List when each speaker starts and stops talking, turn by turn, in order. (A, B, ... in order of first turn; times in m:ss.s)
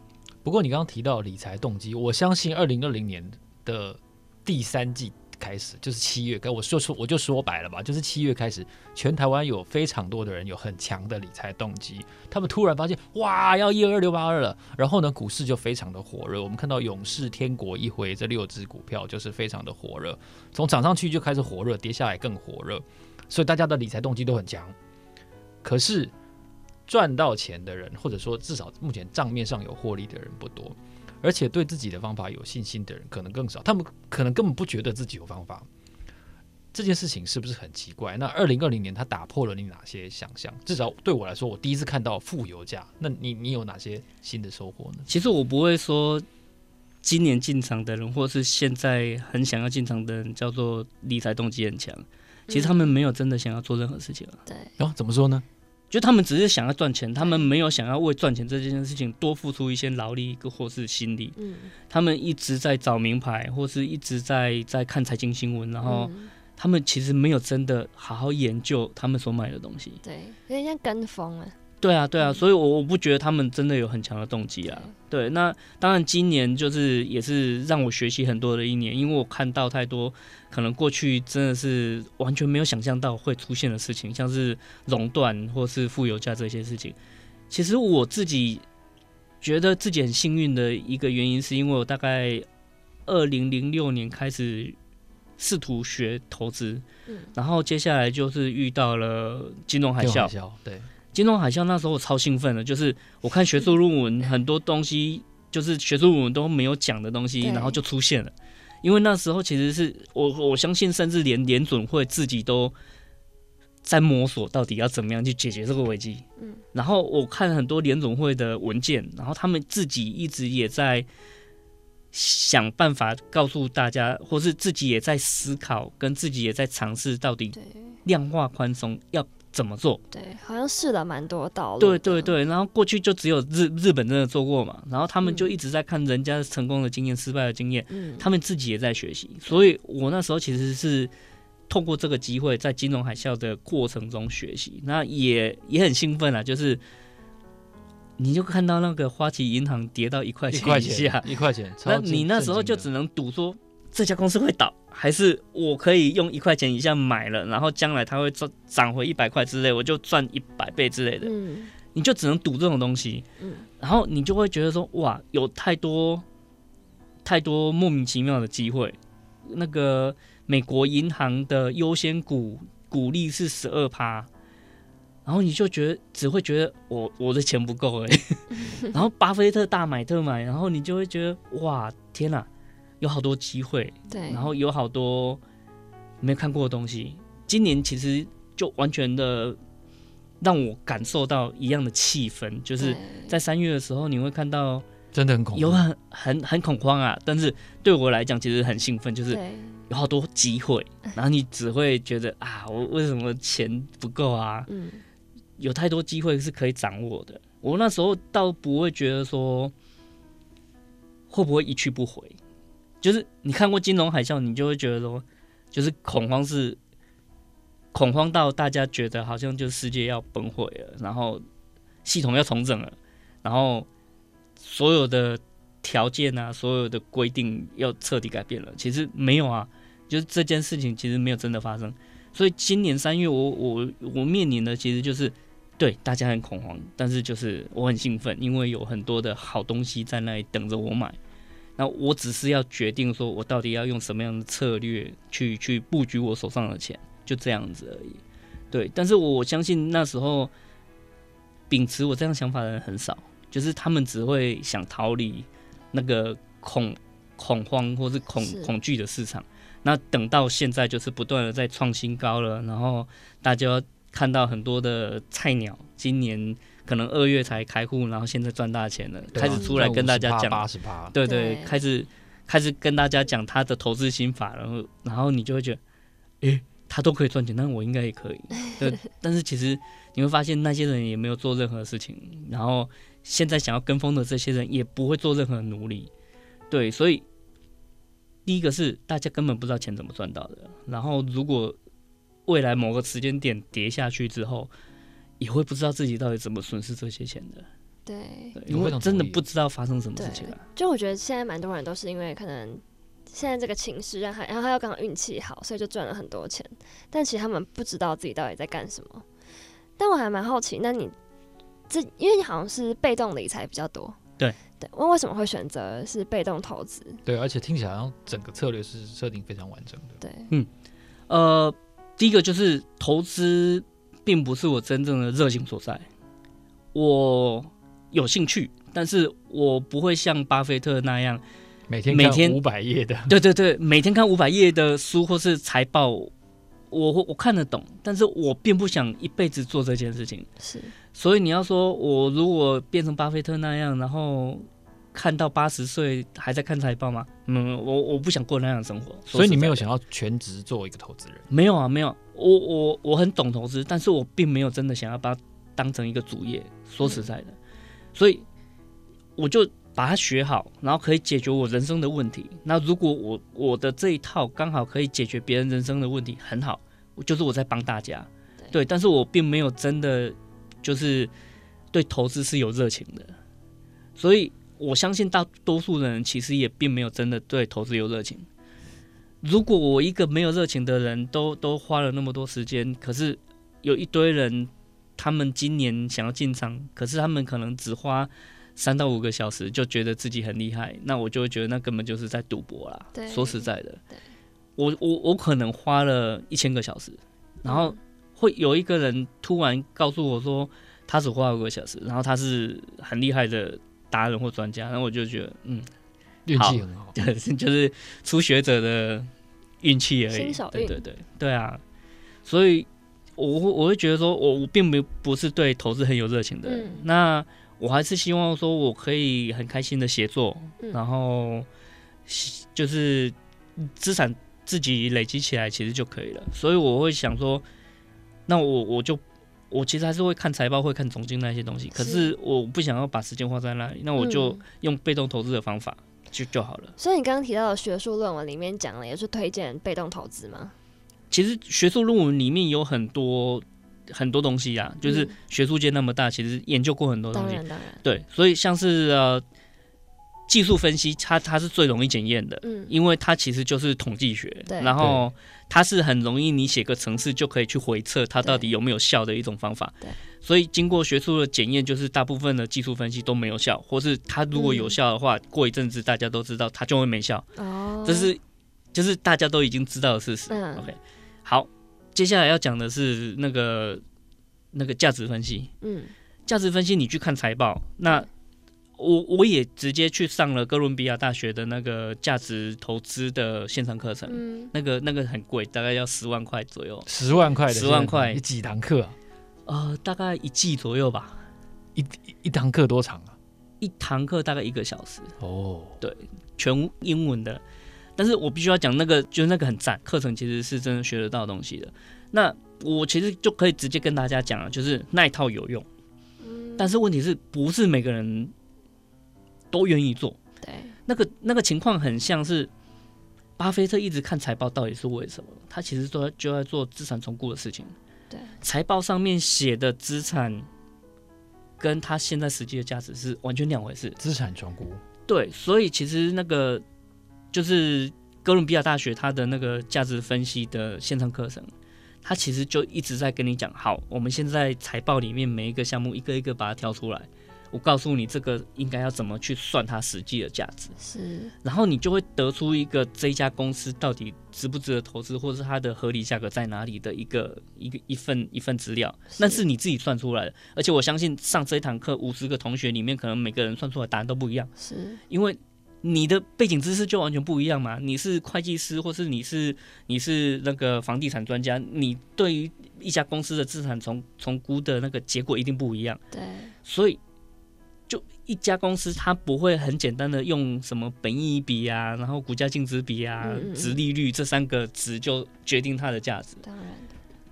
0:00.4-0:24.7 A
0:25.6-0:26.1 A
0:26.9-0:35.7 A
0:36.7-0:45.1 A
0:45.1-0:46.2 B
0:47.0-0:54.4 B
0:52.5-0:52.9 C
0:54.5-0:54.7 C
0:54.8-0:55.4 A
0:55.9-1:01.4 B
0:57.2-0:57.5 C
1:01.4-1:01.7 C
1:01.9-1:10.0 B
1:05.8-1:06.3 C
1:10.0-1:11.6 C
1:11.8-1:27.0 B
1:27.5-1:28.6 B
1:29.4-1:32.4 B
1:33.0-1:34.8 B
1:35.4-1:36.8 B
1:37.3-1:40.3 B
1:40.0-1:40.9 A
1:41.1-1:52.7 B
1:47.4-1:47.8 C
1:53.8-2:01.1 B
1:56.4-1:56.6 C
2:02.1-2:10.0 B
2:07.5-2:08.0 C
2:10.1-2:12.4 C
2:11.8-2:21.1 B
2:15.2-2:15.5 C
2:17.9-2:18.2 C
2:21.7-2:26.8 B
2:28.2-2:31.2 B
2:30.5-2:32.8 A
2:31.8-2:41.3 B
2:41.2-2:41.7 C
2:41.9-2:43.2 B
2:43.4-2:43.7 C
2:43.8-2:46.2 B
2:47.2-2:54.3 B
2:55.2-3:02.5 B
3:03.0-3:05.4 B
3:04.1-3:04.5 C
3:06.2-3:09.6 B
3:10.4-3:14.8 B
3:12.8-3:13.3 C
3:15.1-3:15.8 A
3:15.5-3:24.7 B
3:19.3-3:19.8 C
3:24.7-3:25.0 C
3:25.6-3:29.7 B
3:31.3-3:32.4 B
3:33.0-3:36.8 B
3:37.9-3:41.4 B
3:42.0-3:43.9 B
3:44.6-4:01.2 B
4:01.8-4:08.2 B
4:08.7-4:10.5 B
4:11.7-4:35.8 B
4:18.4-4:18.7 C
4:29.3-4:31.2 A
4:29.4-4:29.7 C
4:31.2-4:31.8 C
4:36.4-4:46.1 B
4:46.7-4:47.2 B
4:48.4-4:51.8 B
4:52.5-4:54.7 B
4:55.4-4:57.7 B
4:58.0-4:58.6 C
4:58.5-5:00.6 B
4:58.7-4:59.4 A
5:00.2-5:09.2 C
5:10.0-5:11.1 C
5:11.9-5:14.2 C
5:14.8-5:17.2 C
5:17.2-5:20.2 A
5:20.2-5:20.5 C
5:21.3-5:26.1 B
5:26.9-5:31.4 B
5:31.9-5:33.3 A
5:32.1-5:32.6 B
5:33.3-5:36.3 B
5:36.9-5:40.5 B
5:40.6-5:40.9 C
5:41.1-5:49.8 B
5:49.3-5:51.5 A
5:51.5-5:57.6 B
5:58.1-5:58.4 B
5:59.4-6:11.3 B
6:11.9-6:13.3 B
6:14.2-6:18.5 B
6:19.4-6:34.0 B
6:33.1-6:34.2 C
6:34.8-6:45.9 B
6:37.6-6:38.0 C
6:46.4-6:47.1 A
6:46.5-6:49.3 B
6:49.8-6:51.8 B
6:50.3-6:51.0 C
6:52.4-7:01.7 B
6:56.6-6:57.0 C
7:02.2-7:07.6 B
7:08.5-7:16.9 B
7:11.9-7:12.3 C
7:14.2-7:14.6 C
7:17.0-7:20.7 C
7:21.3-7:29.4 B
7:25.0-7:25.3 C
7:27.3-7:28.0 C
7:30.5-7:47.5 B
7:32.6-7:32.9 C
7:34.7-7:34.9 C
7:38.4-7:38.7 C
7:44.5-7:45.0 C
7:47.6-7:48.3 C
7:48.0-7:48.4 B
7:48.9-7:54.0 B
7:50.5-7:50.9 C
7:54.7-7:55.7 B
7:55.8-7:56.1 C
7:56.4-7:58.3 B
7:59.0-8:07.1 B
8:04.3-8:04.7 C
8:07.0-8:09.1 A
8:07.6-8:08.4 B
8:09.7-8:11.4 B
8:12.0-8:13.3 A
8:13.8-8:15.3 B
8:15.4-8:16.0 A
8:16.0-8:17.6 B
8:18.2-8:25.8 B
8:26.4-8:26.9 C
8:26.8-8:28.5 B
8:29.7-8:30.4 B
8:30.6-8:31.0 C
8:31.1-8:32.7 B
8:33.6-8:37.9 B
8:38.6-8:40.7 B
8:41.8-8:44.2 B
8:44.2-8:45.0 A
8:45.3-8:46.8 B
8:47.5-8:51.7 B
8:52.2-9:00.9 B
9:01.0-9:01.5 C
9:01.6-9:14.7 B
9:09.3-9:09.6 C
9:14.8-9:15.2 C
9:15.3-9:26.2 B
9:26.3-9:26.7 C
9:26.8-9:27.2 B
9:28.1-9:36.6 B
9:33.4-9:34.0 C
9:36.6-9:37.1 C